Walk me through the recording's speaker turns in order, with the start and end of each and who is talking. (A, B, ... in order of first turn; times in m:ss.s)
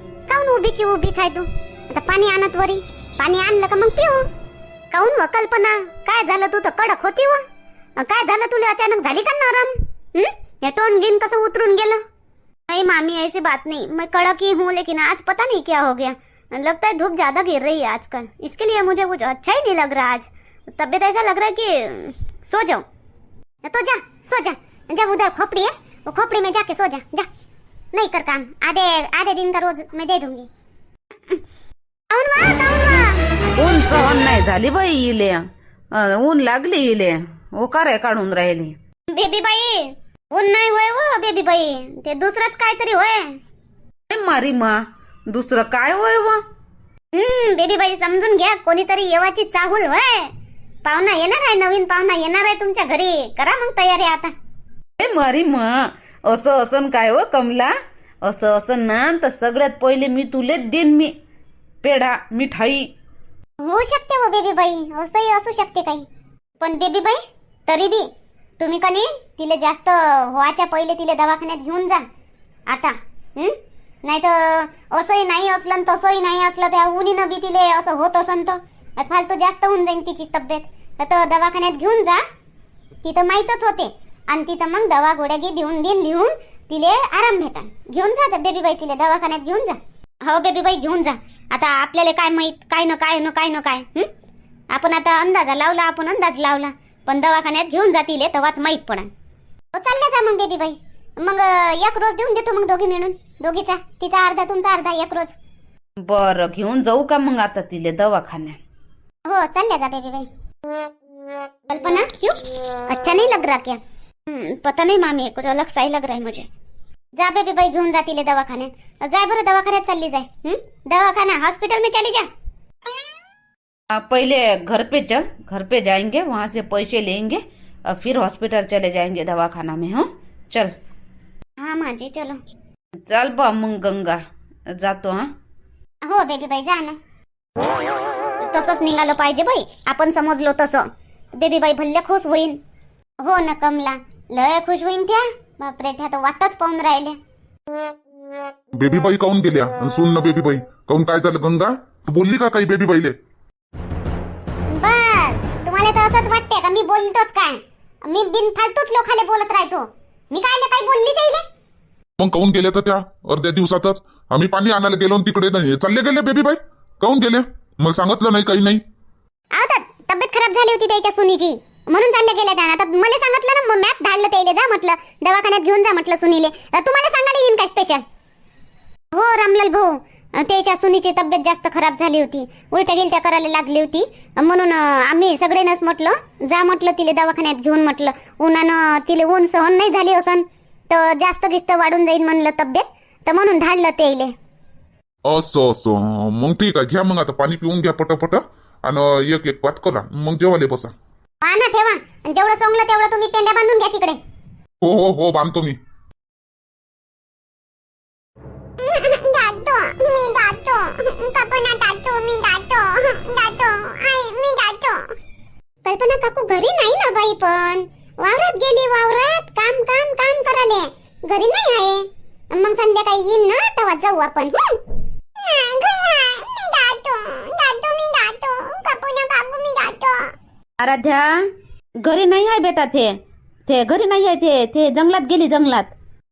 0:00.3-0:04.3 A
0:04.9-0:07.4 A
0:08.0-0:12.0 A
0:12.7-0:22.8 A
0:23.6-0:27.3 A
0:27.9-0:30.5 A
0:32.1-0:33.2 A
0:33.6-0:38.7 B
0:39.1-0:43.3 A
0:44.1-0:46.4 B
0:47.1-0:50.3 A
0:50.8-0:54.3 A
0:55.0-0:57.7 B
0:58.2-1:01.1 B
1:01.8-1:02.9 B
1:03.6-1:06.0 A
1:06.6-1:08.0 A
1:08.6-1:12.0 A
1:12.7-1:22.2 A
1:23.0-1:34.1 A
1:34.7-1:39.1 A
1:39.7-1:45.3 A
1:46.0-1:48.6 B
1:49.2-1:50.3 A
1:51.7-1:56.5 A
1:57.2-2:02.3 A
2:03.9-2:10.7 B
2:11.6-2:12.4 A
2:13.1-2:14.2 B
2:14.7-2:15.3 B
2:16.0-2:17.0 A
2:18.4-2:22.6 A
2:23.2-2:27.2 A
2:28.7-2:33.1 C
2:34.7-2:41.4 A
2:42.2-2:48.8 C
2:49.5-2:58.0 A
2:59.1-3:14.3 A
3:15.3-3:20.9 C
3:21.4-3:24.2 A
3:24.8-3:25.8 C
3:28.8-3:35.0 A
3:35.8-3:44.6 A
3:45.4-3:50.3 A
3:50.8-3:51.3 B
3:52.0-3:53.1 B
3:53.7-3:55.9 B